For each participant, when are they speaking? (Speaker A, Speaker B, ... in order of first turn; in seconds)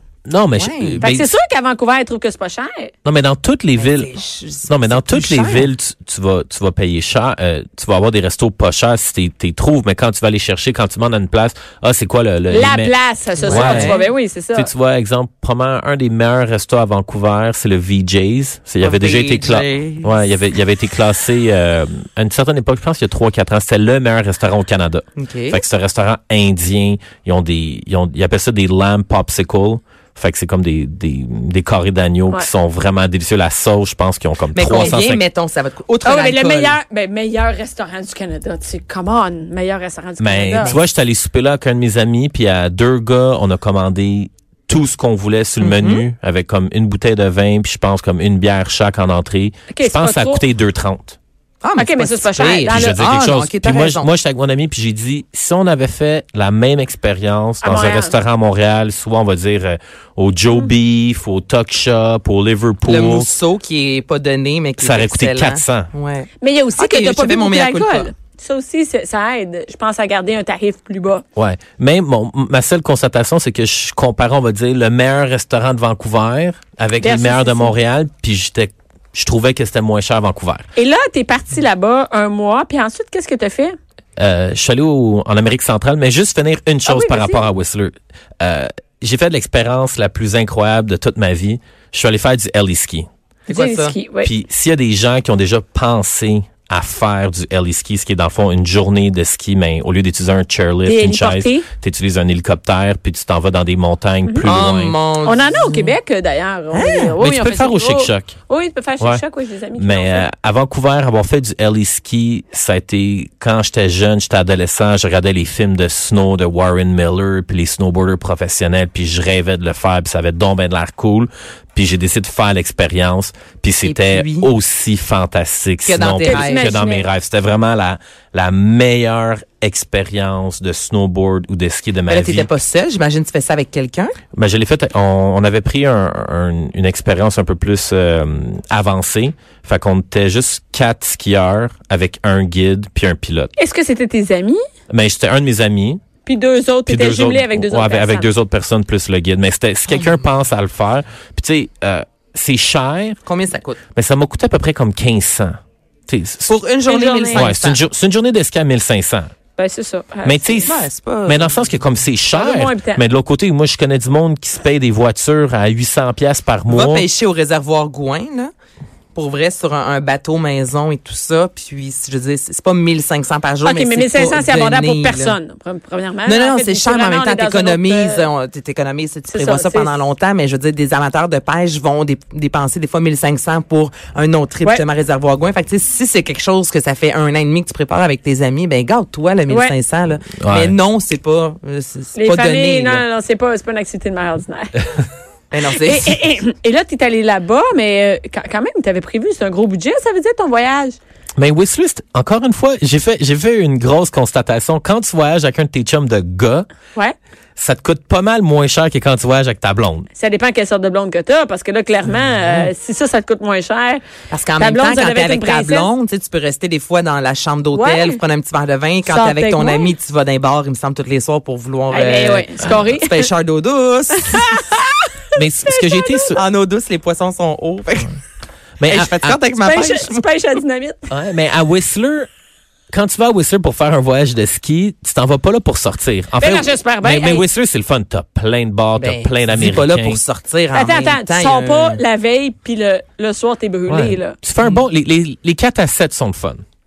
Speaker A: 0.3-1.3, 3.0-4.1, 4.7-12.9, 13.5-14.0, 14.5-35.2, 40.2-51.2, 52.7-63.3, 64.8-65.9, 71.4-80.7, 84.2-93.1, 94.2-105.0, 107.2-108.4, 109.8-132.5, 134.3-143.5, 144.9-146.0, 146.9-153.2, 153.9-155.6, 156.1-156.6, 157.3-159.3, 160.2-167.1, 190.4-190.8, 201.4-206.7, 207.6-210.1, 225.3-226.4, 228.8-229.5, 231.1-232.3, 232.9-240.2, 243.9-246.6
Speaker B: 0.6-1.0, 3.8-5.7, 13.4-14.1, 18.8-20.1, 25.2-25.6, 34.5-36.8, 45.6-46.0, 51.6-54.1, 62.9-68.1, 93.5-94.0, 104.4-106.0, 106.7-107.2, 123.8-124.5, 125.8-126.8, 132.1-134.2, 149.9-150.2, 153.2-153.8, 156.5-157.8, 160.6-161.6, 166.7-168.5, 169.2-175.4, 176.2-193.1, 195.5-196.2, 214.3-224.6, 226.3-228.2, 228.9-230.3, 239.0-242.0, 244.6-244.8
Speaker C: 1.0-2.9, 12.5-14.7, 36.0-40.8, 49.7-50.4, 51.8-53.0, 57.6-58.1, 66.4-71.2, 77.0-77.8, 80.8-83.8, 86.9-87.5, 93.5-94.3, 100.8-101.7, 105.2-110.3, 126.2-127.1, 143.6-144.6, 146.2-148.3, 156.9-157.5, 159.6-160.6, 162.3-163.0, 173.6-178.3, 179.3-180.0, 189.5-189.7, 192.2-194.9, 195.7-201.0, 210.1-214.0, 214.6-215.9, 217.7-218.2, 219.1-219.9, 221.9-223.3, 224.2-226.3, 229.6-231.1, 236.4-237.4, 240.7-244.4